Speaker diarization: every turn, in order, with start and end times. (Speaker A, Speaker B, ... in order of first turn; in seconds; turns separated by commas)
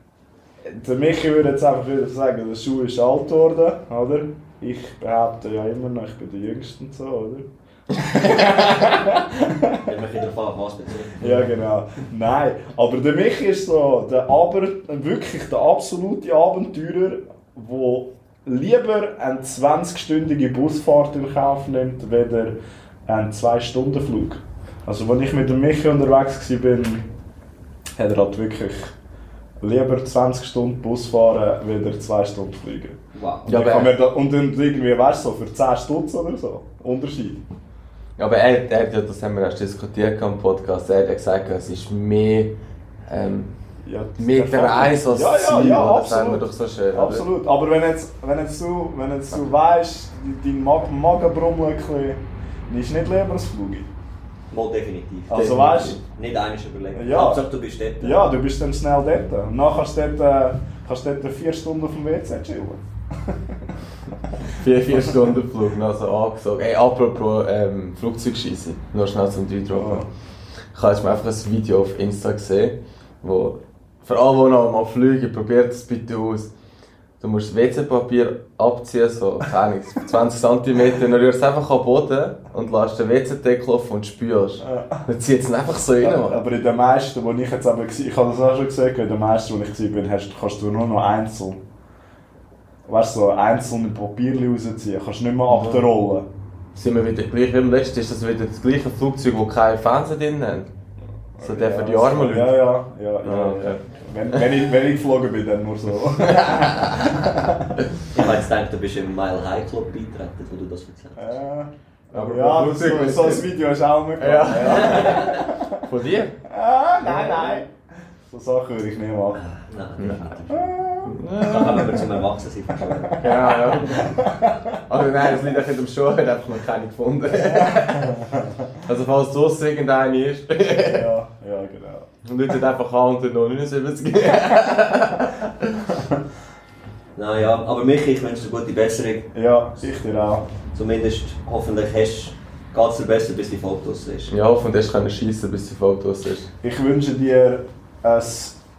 Speaker A: 0.6-7.5, Speaker A: 8.0-9.8, Speaker B: 9.8-11.4, Speaker A: 11.2-22.5, Speaker A: 23.1-27.1, Speaker A: 27.9-28.9, Speaker A: 29.6-37.4, Speaker B: 33.1-33.5, Speaker C: 33.5-33.9, Speaker C: 38.2-42.5, Speaker C: 43.1-43.5, Speaker A: 43.8-53.9, Speaker C: 44.2-47.3, Speaker B: 54.5-55.4, Speaker A: 55.3-56.0, Speaker C: 55.3-56.0, Speaker B: 56.1-58.2, Speaker A: 56.9-57.4, Speaker A: 58.0-63.8, Speaker C: 64.4-70.1, Speaker A: 69.7-70.1, Speaker C: 70.7-76.5, Speaker C: 77.2-86.4, Speaker A: 84.6-85.0, Speaker A: 86.0-91.6, Speaker A: 92.8-96.3, Speaker C: 95.5-95.9, Speaker C: 96.7-100.7, Speaker A: 101.4-107.7, Speaker C: 101.4-102.7, Speaker C: 103.2-103.8, Speaker C: 106.2-107.2, Speaker B: 108.1-111.3, Speaker A: 111.2-115.8, Speaker C: 112.1-113.5, Speaker C: 114.2-116.3, Speaker A: 116.5-117.7, Speaker A: 118.3-119.4, Speaker B: 119.3-120.8, Speaker C: 120.0-120.3, Speaker A: 120.5-121.2, Speaker C: 121.0-122.0, Speaker B: 121.4-123.2, Speaker A: 122.8-124.7, Speaker C: 123.2-124.2, Speaker C: 124.8-128.2, Speaker A: 127.4-128.7, Speaker C: 128.8-131.1, Speaker A: 130.8-132.1, Speaker C: 132.2-135.9, Speaker B: 137.2-139.3, Speaker A: 139.3-140.4, Speaker B: 140.7-144.3, Speaker C: 144.3-146.5, Speaker A: 146.6-148.6